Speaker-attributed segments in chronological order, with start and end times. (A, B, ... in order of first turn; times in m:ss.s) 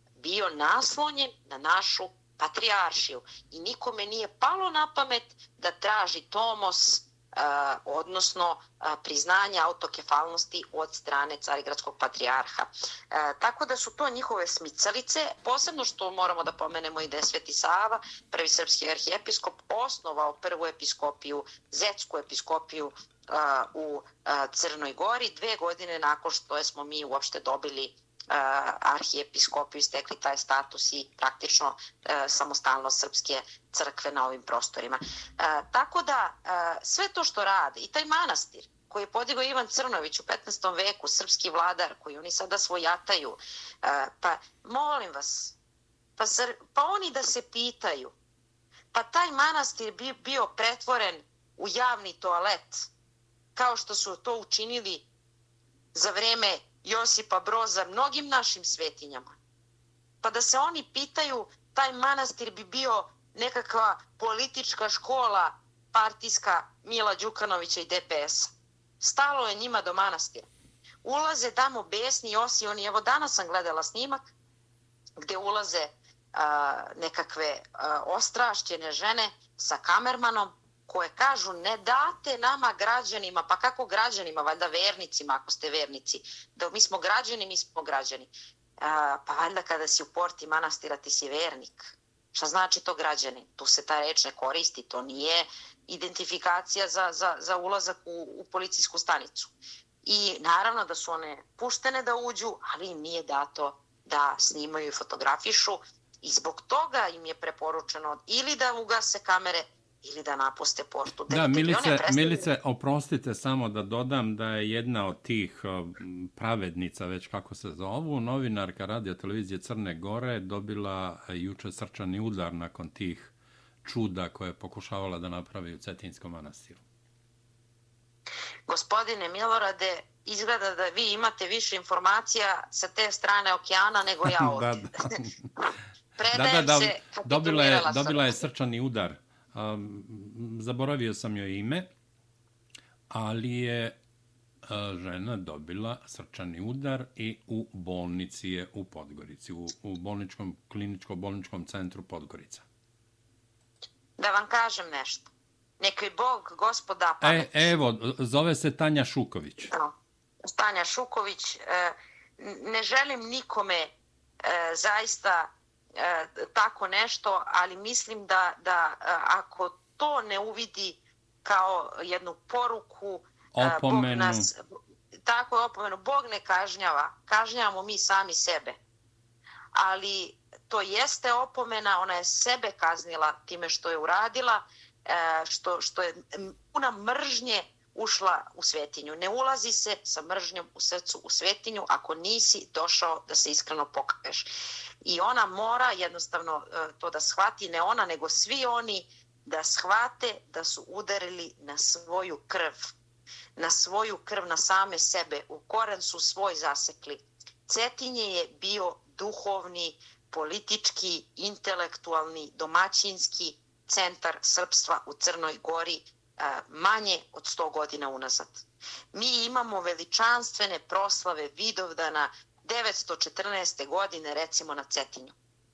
0:00.2-0:45.6 A
0:46.2-0:48.1 A
0:48.9-0:52.9 A
0:53.6-0:55.1 A
0:55.9-0:59.4 A
1:00.2-1:10.5 A
1:11.0-1:14.2 A
1:15.2-1:39.5 A
1:40.0-1:52.5 A
1:51.3-2:03.3 B
2:03.8-2:06.8 B
2:08.7-2:15.2 A
2:14.3-2:15.5 B
2:16.2-2:18.4 A
2:16.3-2:21.9 B
2:23.1-2:24.0 B
2:24.7-2:32.6 B
2:34.2-2:37.7 A
2:37.2-2:39.7 B
2:40.4-2:54.6 A
2:53.5-2:54.5 B
2:55.2-2:58.8 A
2:59.8-3:14.5 A
3:15.0-3:22.9 A
3:23.6-3:45.3 A